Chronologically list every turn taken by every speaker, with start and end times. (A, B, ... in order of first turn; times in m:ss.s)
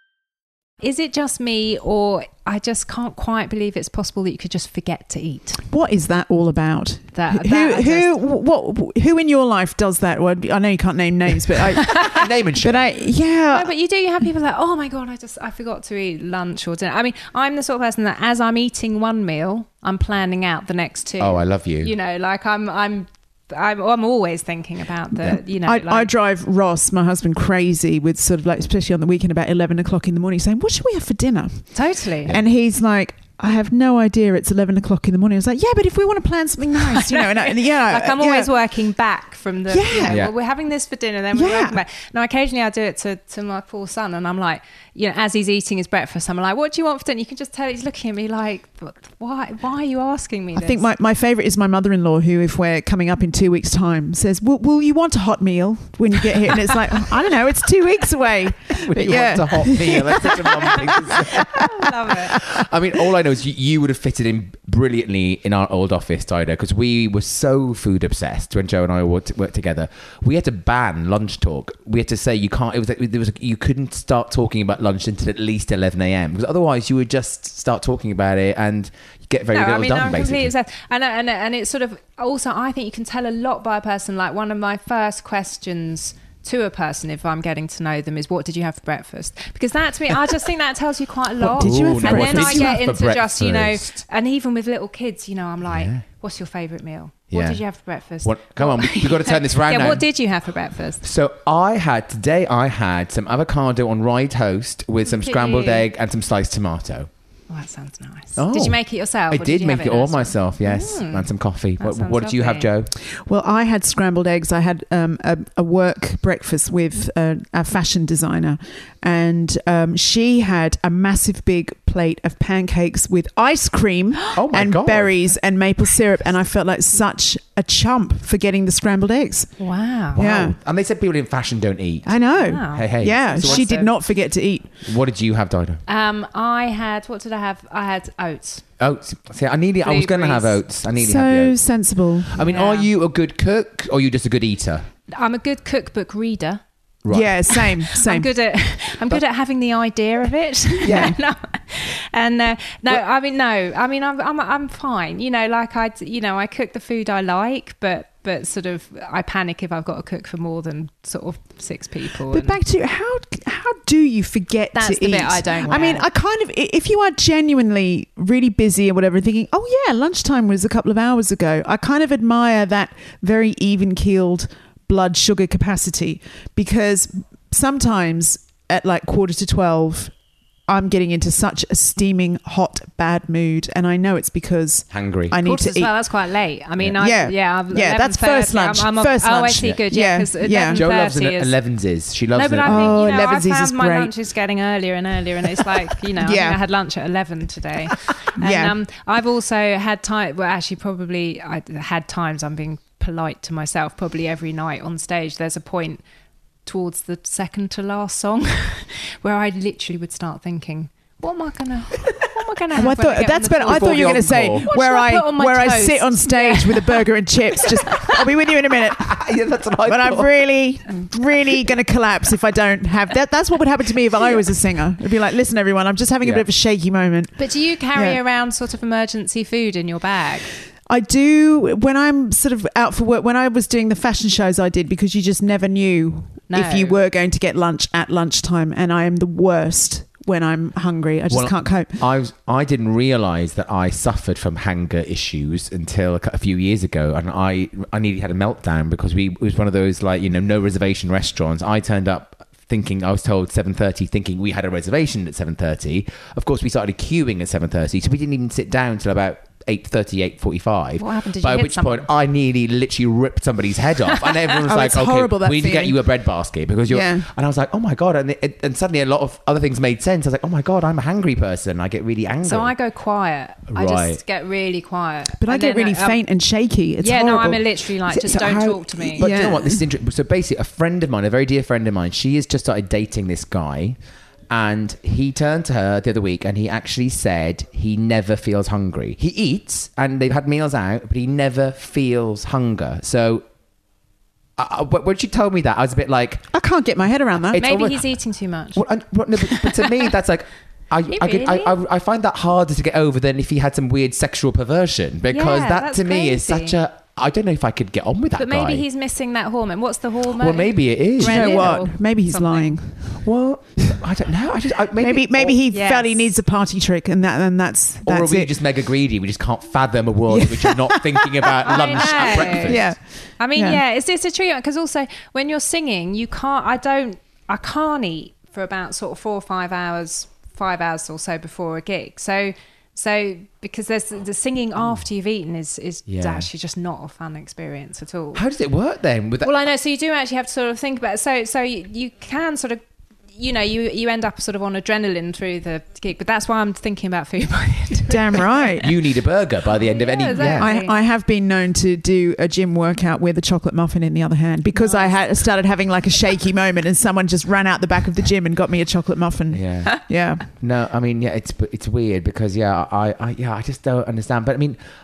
0:00.8-0:05.6 A
0:05.7-0:13.7 B
0:07.2-0:08.2 A
0:12.0-0:12.9 C
0:13.5-0:26.1 A
0:21.2-0:21.9 C
0:25.4-0:38.5 B
0:31.7-0:32.3 A
0:36.8-0:50.9 A
0:39.7-0:40.3 B
0:40.1-0:40.3 C
0:41.3-0:41.8 B
0:50.6-1:01.7 B
0:58.8-1:01.7 C
1:01.4-1:02.4 A
1:02.3-1:20.5 C
1:19.5-1:41.0 A
1:31.4-1:32.8 B
1:31.6-1:34.0 C
1:35.7-1:36.0 C
1:37.3-1:37.6 C
1:38.2-1:40.1 C
1:41.0-1:47.1 C
1:45.0-1:45.9 A
1:47.5-1:52.7 A
1:48.4-1:52.9 C
1:53.0-2:09.5 B
2:04.3-2:05.3 C
2:09.6-2:10.2 A
2:10.1-2:10.6 B
2:10.2-2:12.2 C
2:12.0-2:14.7 B
2:12.4-2:13.9 A
2:12.7-2:13.9 C
2:14.8-2:15.8 C
2:15.9-2:18.6 A
2:18.8-2:21.7 C
2:19.8-2:20.6 A
2:21.0-2:22.4 B
2:22.3-2:24.9 C
2:22.4-2:22.9 A
2:25.1-2:26.6 A
2:27.0-2:27.5 C
2:27.1-2:28.3 B
2:27.5-2:42.6 A
2:30.8-2:31.2 C
2:42.3-3:00.1 B
2:44.7-2:46.1 A
3:00.7-3:05.9 B
3:04.9-3:05.4 C
3:05.4-3:11.5 A
3:07.0-3:10.8 B
3:10.7-3:13.0 C
3:12.3-3:26.0 A
3:12.6-3:14.1 B
3:16.2-3:16.6 B
3:18.4-3:18.8 B
3:26.7-3:37.0 A
3:32.8-3:39.2 B
3:33.6-3:34.7 C
3:39.0-3:40.5 C
3:39.8-3:47.4 B
3:47.4-3:50.5 A
3:47.9-3:48.2 B
3:50.9-4:02.0 B
3:56.5-3:57.0 A
4:01.3-4:32.7 C
4:21.0-4:22.1 A
4:24.6-4:26.0 B
4:26.9-4:27.3 B
4:32.4-4:36.2 A
4:33.7-4:34.2 C
4:35.4-4:37.6 B
4:37.0-4:39.3 A
4:38.1-4:44.0 C
4:39.2-4:39.9 B
4:44.5-4:53.4 C
4:54.6-4:56.5 C
4:56.5-4:57.6 B
4:57.5-4:58.1 C
4:57.6-4:58.8 A
4:58.8-5:08.8 C
5:01.1-5:01.7 A
5:05.3-5:06.8 A
5:08.4-5:12.7 A
5:10.4-5:11.8 C
5:11.2-5:13.2 B
5:13.2-5:15.6 C
5:15.0-5:18.5 B
5:15.7-5:16.3 A
5:18.0-5:23.0 C
5:20.3-5:23.8 B
5:21.6-5:22.8 A
5:23.4-5:38.4 A
5:36.1-5:36.5 C
5:38.3-5:39.6 C
5:39.4-5:42.8 A
5:43.3-5:48.6 A
5:48.1-5:48.9 B
5:48.8-5:50.7 C
5:49.9-5:51.0 A
5:50.4-6:00.4 B
5:54.7-5:55.2 A
5:59.5-6:04.8 C